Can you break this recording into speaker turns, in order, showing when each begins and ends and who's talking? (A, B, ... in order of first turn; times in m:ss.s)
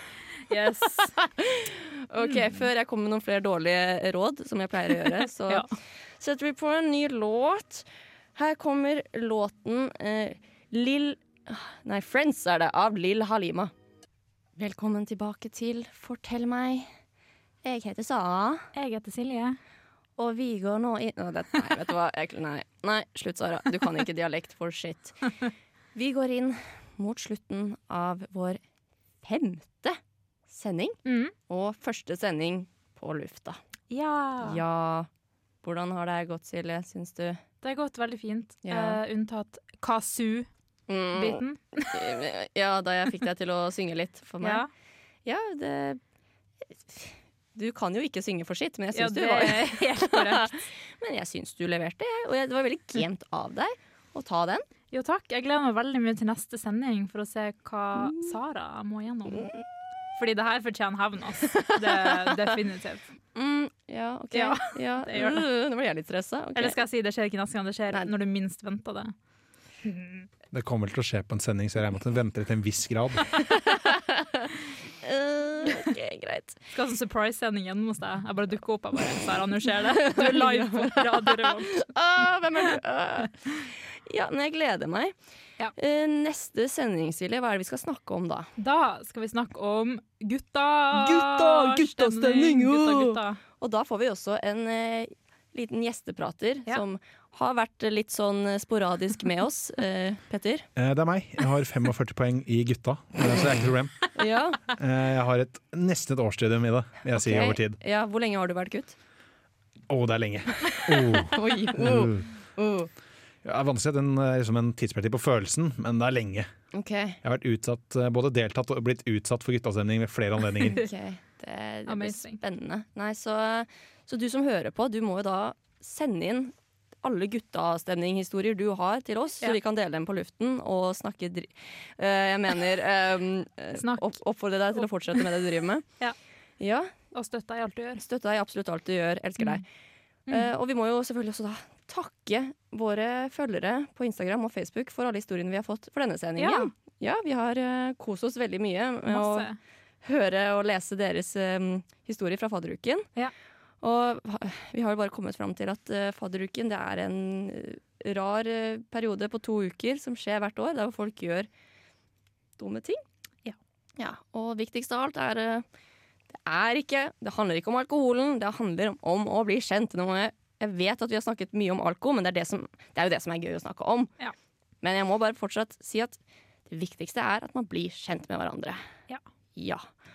0:00.4-0:01.2 A
0:01.0-0:05.6 B
0:02.2-0:02.5 A
0:06.2-0:13.7 B
0:14.6-0:16.9 B
0:17.6-0:18.7 B
0:18.7-0:19.6 A
0:20.2-0:25.2 B
0:25.9-0:28.6 B
0:29.2-0:33.6 B
0:31.0-0:31.3 A
0:33.9-0:34.6 A
0:34.4-0:35.1 B
0:35.6-0:37.4 B
0:37.6-0:40.5 A
0:38.6-0:39.0 B
0:40.9-0:44.6 B
0:41.1-0:42.2 A
0:44.4-0:44.7 A
0:45.2-0:46.0 B
0:46.7-0:54.6 B
0:48.9-0:50.5 A
0:54.9-0:59.5 A
0:58.0-0:58.3 B
1:00.1-1:03.1 A
1:01.5-1:02.5 B
1:03.3-1:06.8 B
1:04.3-1:05.4 A
1:06.6-1:09.1 A
1:09.8-1:10.3 A
1:10.5-1:13.4 C
1:13.4-1:16.6 B
1:16.7-1:21.8 A
1:19.7-1:25.2 B
1:25.7-1:28.5 B
1:28.6-1:33.4 A
1:30.9-1:40.7 B
1:40.8-1:44.1 C
1:44.1-1:44.6 B
1:44.7-1:47.8 C
1:47.1-1:49.0 B
1:49.9-1:52.3 C
1:50.7-1:52.9 B
1:53.4-1:56.5 C
1:56.7-1:57.2 B
1:57.2-2:00.8 C
2:00.6-2:15.8 B
2:01.8-2:02.4 A
2:13.7-2:14.1 A
2:14.7-2:15.3 A
2:16.6-2:16.9 B
2:17.1-2:18.0 A
2:18.0-2:19.6 B
2:20.3-2:20.5 A
2:20.3-2:29.5 B
2:26.4-2:26.7 A
2:29.1-2:29.6 A
2:30.0-2:33.1 B
2:33.8-2:41.5 B
2:42.6-2:43.0 B
2:44.0-2:45.6 B
2:46.3-2:54.1 B
2:54.8-2:58.8 B
2:59.6-2:59.8 B